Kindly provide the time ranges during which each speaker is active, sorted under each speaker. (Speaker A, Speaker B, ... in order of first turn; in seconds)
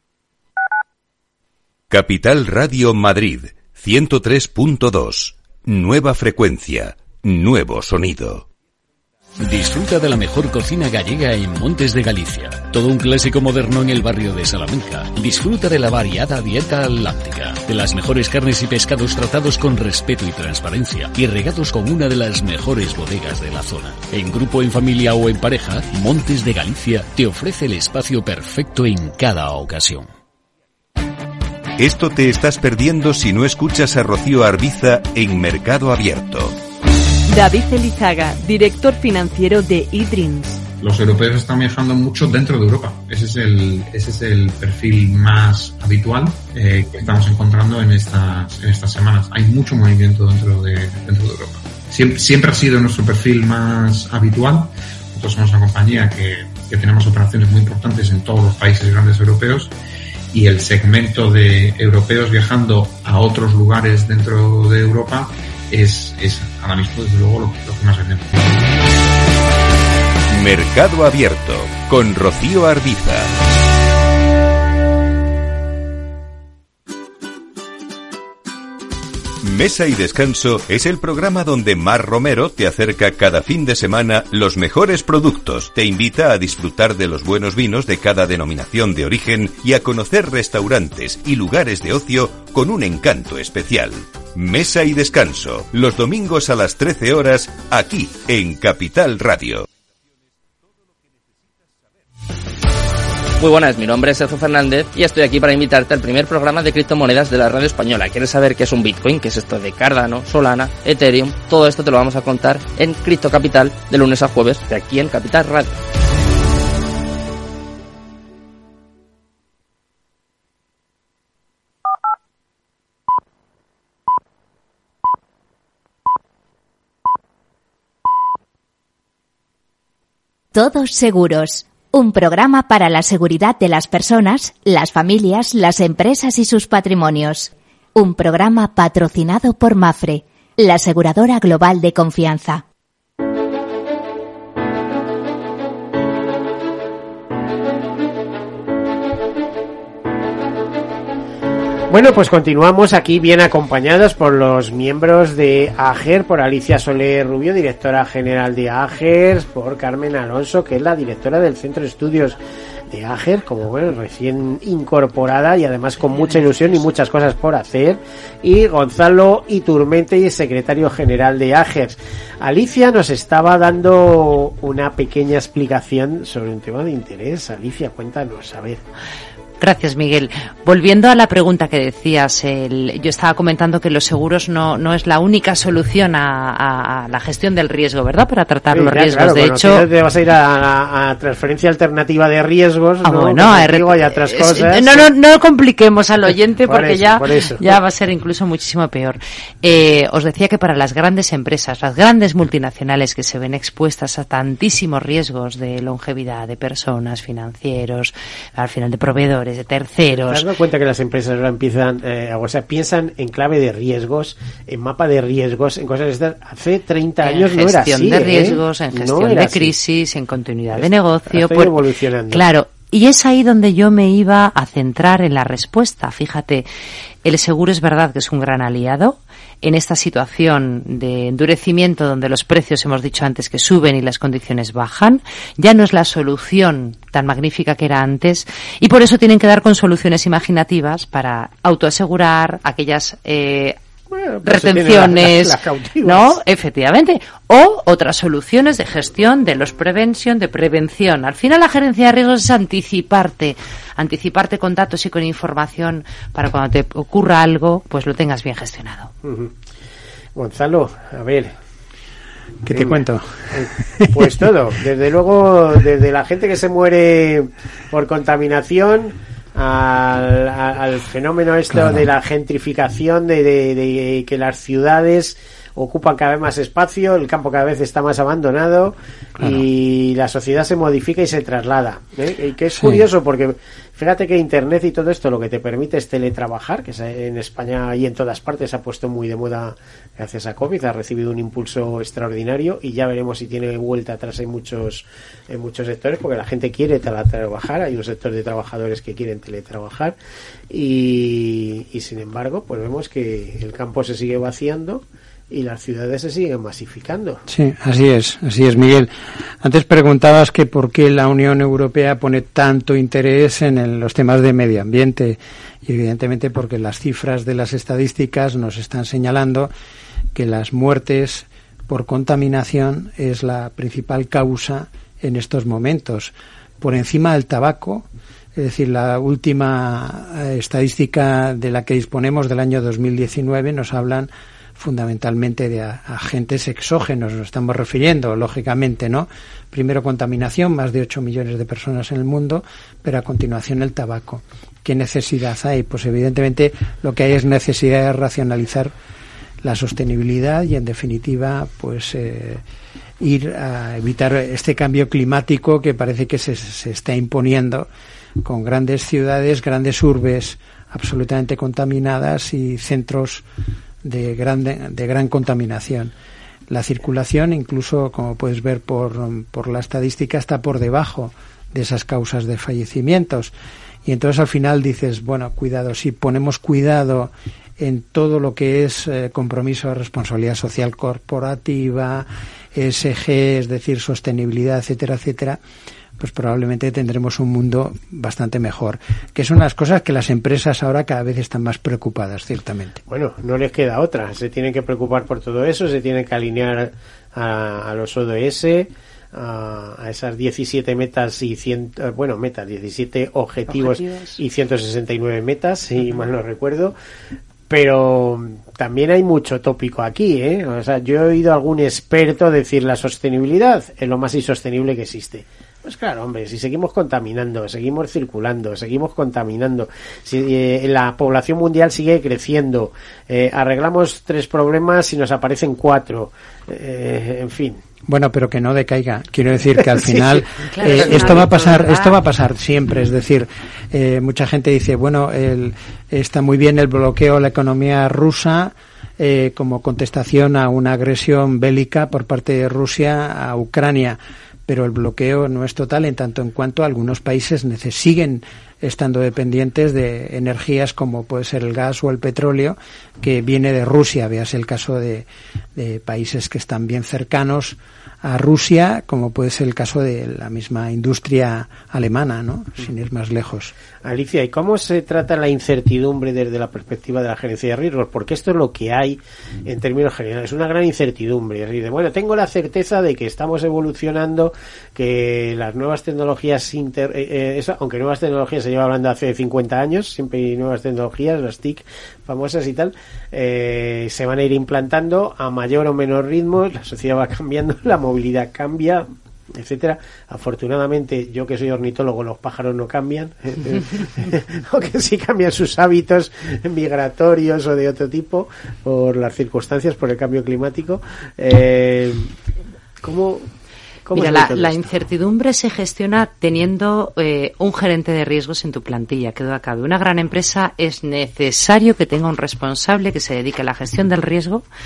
Speaker A: 1.9-8.4, 31.8-36.5, 70.3-73.3, 79.4-99.7
Speaker B: 9.4-30.1
Speaker C: 37.3-40.6
Speaker D: 40.8-59.7, 60.3-68.7
Speaker E: 103.4-115.7
Speaker F: 130.5-142.6
Speaker G: 151.9-162.4, 162.9-178.8, 188.7-195.1, 196.7-197.6, 210.3-219.7, 220.7-222.4, 244.1-246.3, 259.2-259.5, 260.4-261.5, 262.7-300.1, 300.7-307.4, 393.1-406.9, 407.7-427.8, 429.9-430.4, 431.0-431.3, 464.0-502.3, 503.0-503.5, 504.0-504.8
Speaker H: 179.6-189.9, 193.0-210.4, 217.2-221.8, 222.3-226.7, 227.2-243.8, 244.4-259.1, 403.7-404.4, 430.6-432.2, 504.1-514.7
Speaker I: 262.6-264.5, 271.7-272.1, 279.4-279.6, 282.8-283.0, 307.5-319.7, 320.3-348.9, 349.6-352.6, 353.2-357.9, 358.4-363.4, 364.0-366.1, 366.7-373.5, 374.0-385.6, 386.2-393.0, 428.1-463.7